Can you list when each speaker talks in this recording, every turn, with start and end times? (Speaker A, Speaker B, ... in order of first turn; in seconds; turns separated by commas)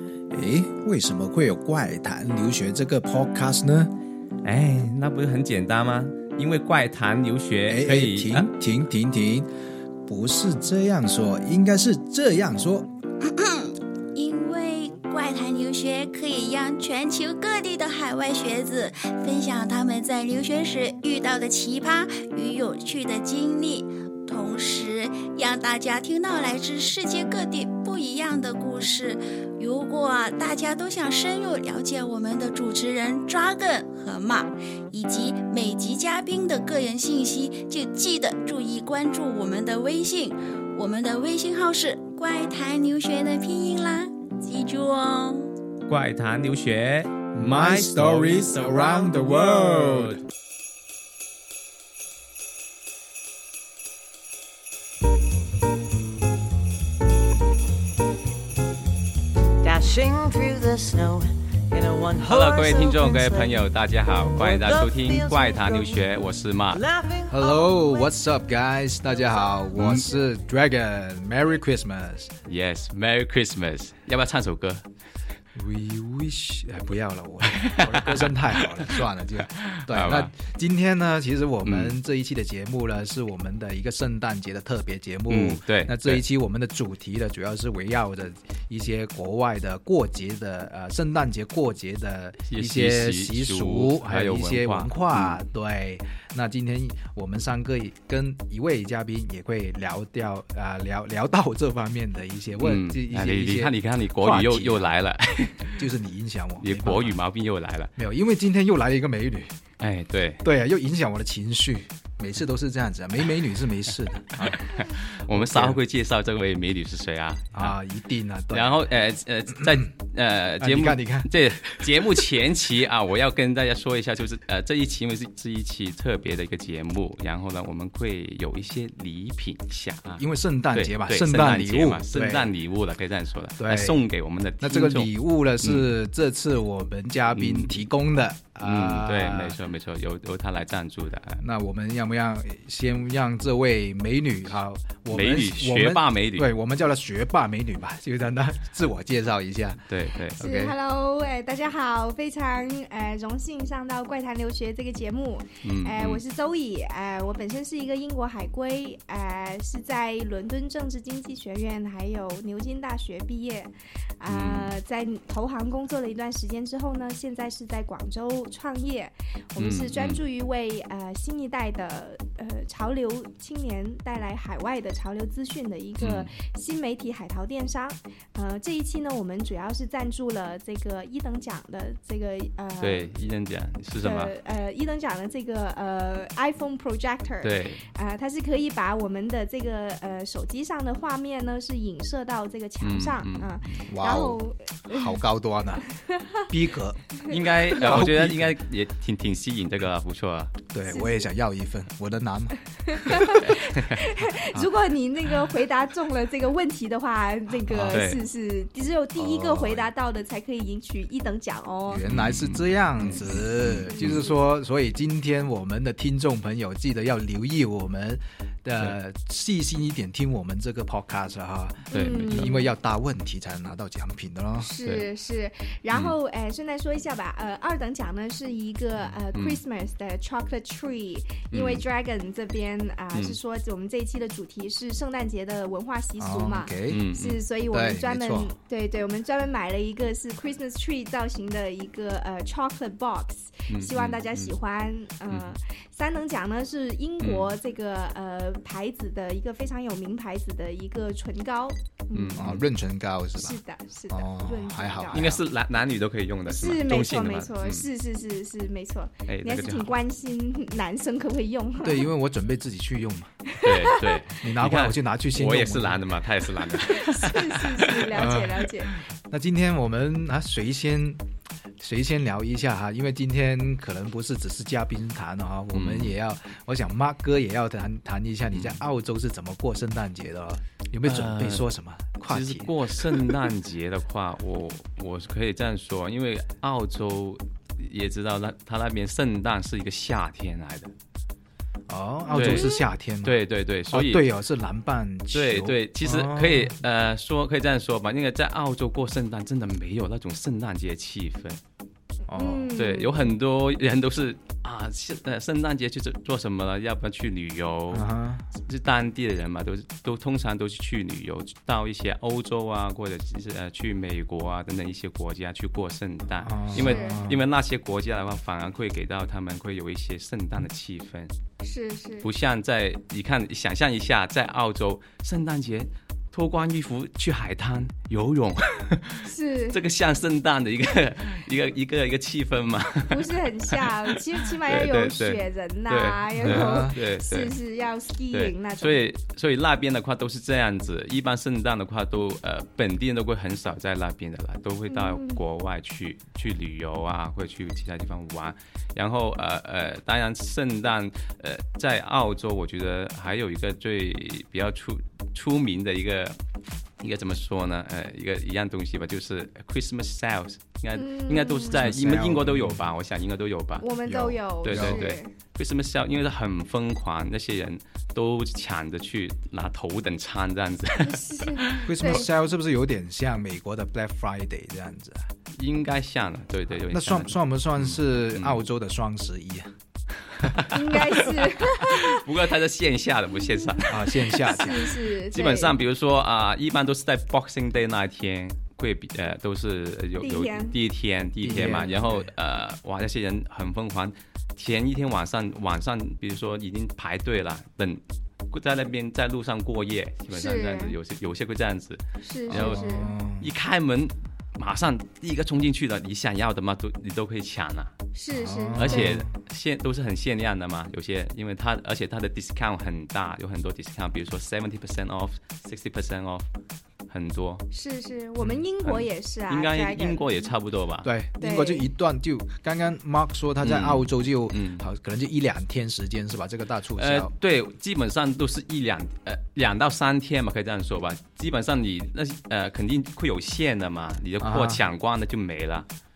Speaker A: 0.3-3.9, Speaker B: 4.4-8.5, Speaker A: 7.7-9.5, Speaker A: 10.1-12.9, Speaker C: 13.2-45.5, Speaker B: 45.9-48.9, Speaker A: 47.3-50.2, Speaker B: 49.7-50.2, Speaker D: 59.6-63.7, Speaker B: 62.2-66.8, Speaker D: 64.4-66.1, Speaker D: 66.7-67.7, Speaker A: 67.3-72.3, Speaker B: 69.8-70.1, Speaker B: 72.5-74.8, Speaker A: 75.5-104.9, Speaker B: 77.5-79.0, Speaker B: 79.5-80.3, Speaker B: 81.6-82.0, Speaker B: 85.3-86.2, Speaker B: 92.5-95.4, Speaker B: 102.6-105.8, Speaker A: 105.7-107.2, Speaker B: 106.6-107.9, Speaker A: 108.0-109.5, Speaker B: 109.8-110.4, Speaker A: 110.4-114.7, Speaker B: 114.4-117.8, Speaker A: 115.3-115.8, Speaker A: 117.5-118.8, Speaker B: 118.5-135.9, Speaker A: 120.6-122.2, Speaker A: 130.2-132.5, Speaker A: 133.6-134.0, Speaker A: 134.6-139.6, Speaker B: 137.3-137.8, Speaker B: 138.6-141.4, Speaker A: 141.4-149.9, Speaker B: 145.1-146.5, Speaker B: 149.9-150.4, Speaker A: 150.4-150.7, Speaker E: 150.4-183.2, Speaker B: 155.6-156.2, Speaker B: 164.3-164.7, Speaker B: 169.6-170.2, Speaker B: 176.0-176.3, Speaker B: 182.8-184.3, Speaker E: 184.0-195.2, Speaker B: 187.4-187.9, Speaker B: 192.8-193.8, Speaker A: 193.9-195.8, Speaker E: 196.1-196.4, Speaker A: 196.5-197.1, Speaker B: 197.3-200.5, Speaker A: 197.7-198.5, Speaker A: 200.7-203.5, Speaker E: 200.8-201.3, Speaker E: 202.9-212.0, Speaker B: 203.4-204.0, Speaker B: 207.9-208.2, Speaker A: 209.2-209.9, Speaker A: 211.9-224.7, Speaker B: 212.1-214.2, Speaker E: 213.2-214.4, Speaker E: 221.9-222.7, Speaker B: 221.9-222.6, Speaker E: 224.6-252.6, Speaker B: 229.3-229.6, Speaker B: 231.5-231.8, Speaker A: 236.2-237.0, Speaker B: 236.9-237.4, Speaker A: 237.7-238.5, Speaker B: 243.7-244.5, Speaker B: 245.3-245.5, Speaker B: 247.2-247.5, Speaker B: 252.1-252.6, Speaker A: 252.4-253.6, Speaker E: 253.3-255.4, Speaker A: 254.1-255.3, Speaker B: 255.1-257.9, Speaker E: 256.5-262.1, Speaker B: 259.3-259.9, Speaker A: 261.8-263.3, Speaker E: 263.5-264.2, Speaker B: 263.6-268.1, Speaker A: 264.4-266.0, Speaker E: 266.7-268.9, Speaker A: 268.1-271.2, Speaker A: 271.8-283.4, Speaker B: 275.7-276.1, Speaker B: 278.5-278.8, Speaker B: 281.0-281.7, Speaker B: 282.3-290.9, Speaker A: 291.9-293.4, Speaker E: 292.3-292.9, Speaker B: 292.4-292.7, Speaker B: 293.2-294.2, Speaker A: 293.9-296.8, Speaker B: 295.3-301.6, Speaker E: 302.3-303.3, Speaker A: 302.3-302.7, Speaker B: 302.8-321.3, Speaker A: 307.9-308.4, Speaker A: 316.4-317.4, Speaker E: 316.7-317.2, Speaker E: 321.6-322.3, Speaker B: 322.2-337.5, Speaker E: 329.2-329.8, Speaker E: 333.1-339.0, Speaker A: 336.4-336.9, Speaker B: 338.3-356.5, Speaker E: 344.9-345.4, Speaker B: 357.0-363.9, Speaker E: 360.9-361.9, Speaker A: 361.7-362.8, Speaker E: 363.8-365.3, Speaker A: 364.1-365.0, Speaker B: 364.6-372.2, Speaker E: 371.0-372.3, Speaker A: 371.9-375.3, Speaker B: 375.6-378.6, Speaker A: 376.9-379.7, Speaker B: 380.3-407.9, Speaker E: 380.7-382.2, Speaker E: 383.4-383.8, Speaker A: 383.9-384.8, Speaker E: 384.3-385.8, Speaker E: 390.2-390.8, Speaker A: 391.4-392.3, Speaker E: 400.3-400.9, Speaker E: 402.2-403.1, Speaker A: 402.5-403.5, Speaker E: 408.1-409.1, Speaker A: 408.3-409.3, Speaker B: 408.8-416.5, Speaker B: 417.1-417.6, Speaker E: 417.7-420.5, Speaker B: 418.8-421.1, Speaker A: 421.0-427.3, Speaker E: 421.4-421.9, Speaker B: 423.6-424.8, Speaker B: 427.0-435.9, Speaker A: 434.4-434.8